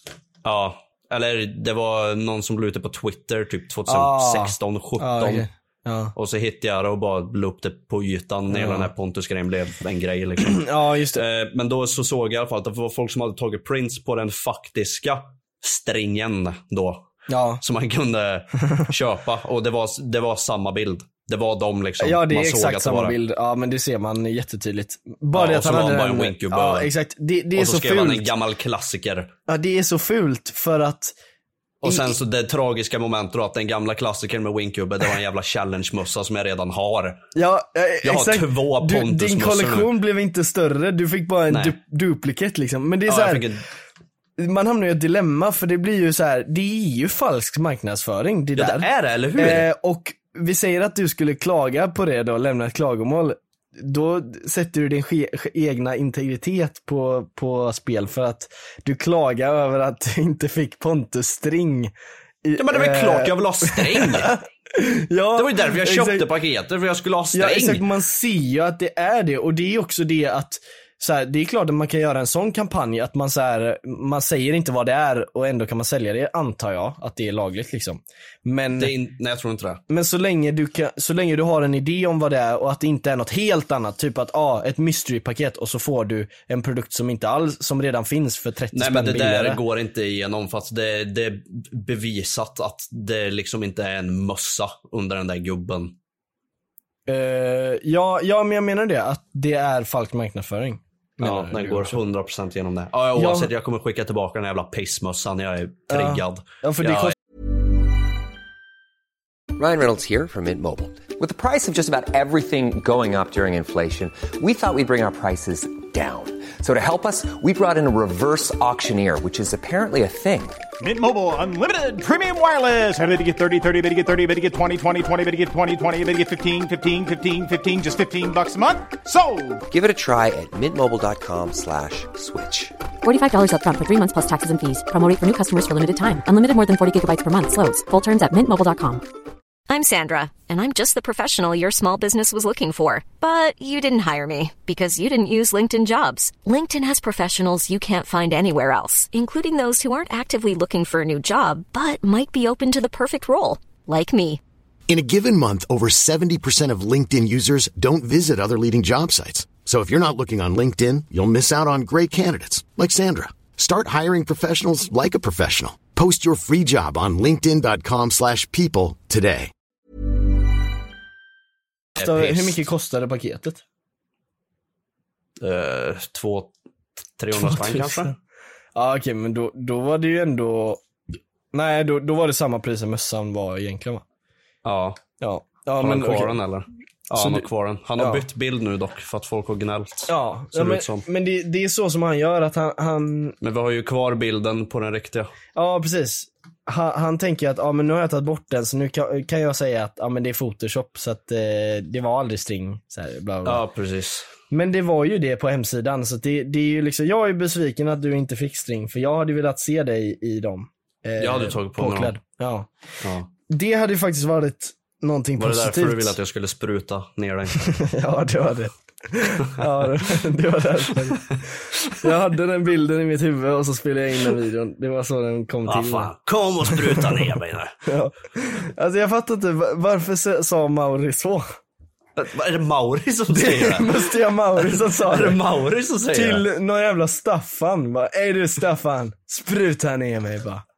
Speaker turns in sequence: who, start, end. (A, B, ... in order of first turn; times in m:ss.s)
0:00.4-0:05.4 A
0:03.9-0:06.1 B
0:06.1-0:17.0 A
0:08.5-0:08.9 B
0:10.5-0:11.2 B
0:17.3-0:17.6 B
0:17.6-0:23.2 A
0:22.0-0:28.2 B
0:25.3-0:26.9 A
0:27.5-0:29.3 A
0:29.5-0:31.1 B
0:31.8-0:37.2 A
0:31.8-0:32.2 B
0:37.4-0:43.4 B
0:38.0-0:39.9 A
0:41.5-0:41.7 A
0:43.1-0:43.6 A
0:44.4-0:48.8 B
0:48.6-0:49.7 A
0:49.4-1:01.9 B
1:02.4-1:06.3 B
1:02.6-1:04.4 A
1:05.4-1:07.8 A
1:07.3-1:18.9 B
1:18.8-1:19.8 A
1:19.9-1:29.6 B
1:28.7-1:35.9 A
1:37.1-1:42.0 B
1:41.2-1:47.1 A
1:43.2-1:43.5 B
1:45.9-1:47.1 B
1:49.6-2:00.6 C
2:00.8-2:09.6 D
2:09.7-2:12.7 C
2:13.0-2:19.0 E
2:19.7-2:34.4 F
2:34.9-2:49.5 G
2:52.0-2:52.6 A
2:52.0-2:53.6 B
2:55.4-2:56.5 A
2:57.2-2:58.1 A
2:57.4-2:58.1 B
2:58.7-3:00.8 B
3:01.5-3:04.0 B
3:04.6-3:05.0 A
3:05.2-3:06.4 B
3:05.8-3:11.0 A
3:07.2-3:07.4 B
3:08.0-3:08.2 B
3:10.1-3:13.4 B
3:13.4-3:15.3 A
3:15.5-3:23.6 B
3:23.4-3:24.3 A
3:24.5-3:32.7 B
3:31.2-3:32.1 A
3:33.0-3:33.3 A
3:33.5-3:36.2 B
3:35.4-3:37.7 A
3:37.7-3:41.4 B
3:42.0-3:46.1 B
3:45.6-3:47.7 A
3:46.7-3:47.2 B
3:47.8-3:51.4 B
3:52.2-3:56.4 A
3:53.3-3:55.4 B
3:56.1-4:00.6 B